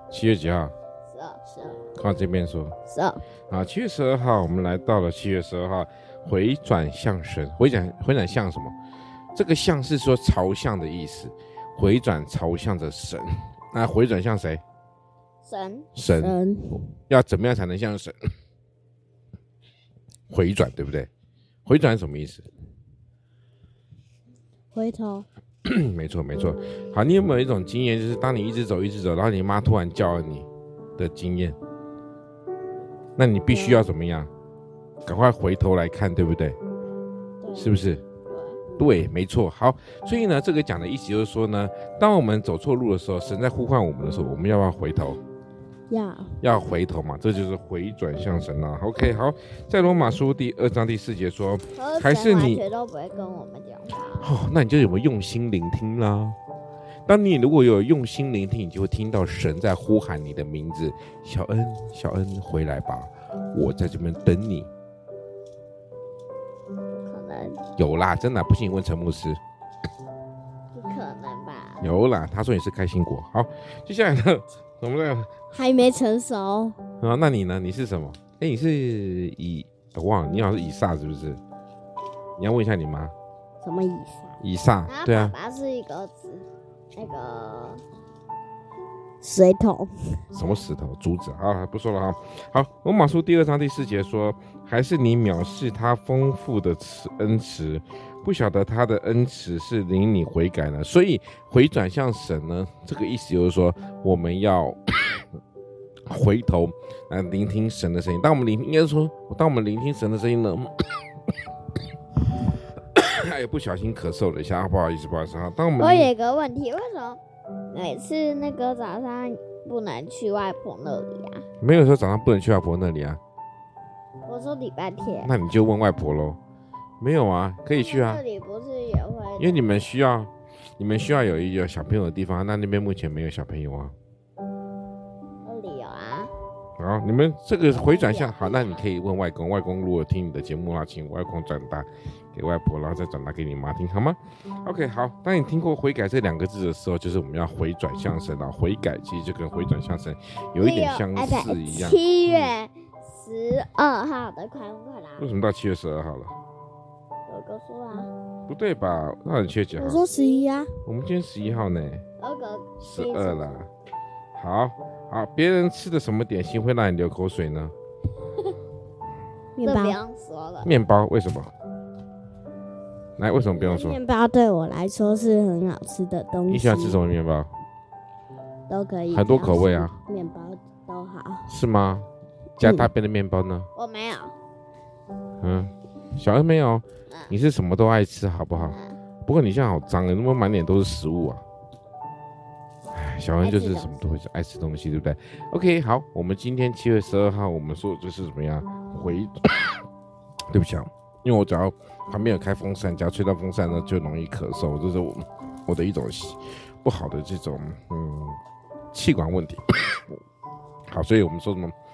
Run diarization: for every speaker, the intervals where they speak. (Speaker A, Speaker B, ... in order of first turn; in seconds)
Speaker A: 0.1-0.7, 1.9-2.8, 3.5-8.7, 9.3-14.6, 15.9-16.4, 17.0-18.2, 20.3-21.1, 21.6-22.4, 25.6-31.6, 33.1-34.3, 35.0-36.6, 37.5-38.0, 38.8-45.2, 46.4-52.6, 54.2-56.4, 57.0-64.7, 67.8-69.4, 71.8-75.3, 77.0-81.4, 82.4-83.1, 84.4-85.3, 90.3-105.3, 106.1-111.0, 112.9-116.1, 121.6-123.2, 125.2-126.4, 127.0-128.2, 129.4-133.9, 136.8-152.5, 155.2-156.3, 158.5-160.1, 160.8-162.0, 162.8-163.7, 164.3-167.7, 170.6-171.5, 173.2-174.0, 176.5-177.5, 179.1-179.9, 181.5-182.1, 182.6-183.7, 185.4-191.4, 192.9-199.8, 200.5-208.4, 208.9-210.2, 210.9-211.7
Speaker B: 1.1-1.8, 15.4-15.9, 37.4-38.6, 51.8-54.3, 67.0-67.6, 70.7-71.9, 84.9-87.8, 115.8-121.4, 124.2-125.3, 127.8-129.8, 135.4-136.3, 137.7-138.8, 150.6-155.2, 157.3-158.1, 160.1-160.5, 162.2-163.6, 169.6-170.7, 183.8-184.3, 188.7-189.0, 193.4-194.0
Speaker C: 16.2-16.9, 24.7-25.2, 45.9-46.4, 75.5-76.8, 83.6-84.3, 89.2-89.9, 159.8-160.7, 169.6-170.0, 173.5-177.0, 178.7-181.5, 182.6-182.9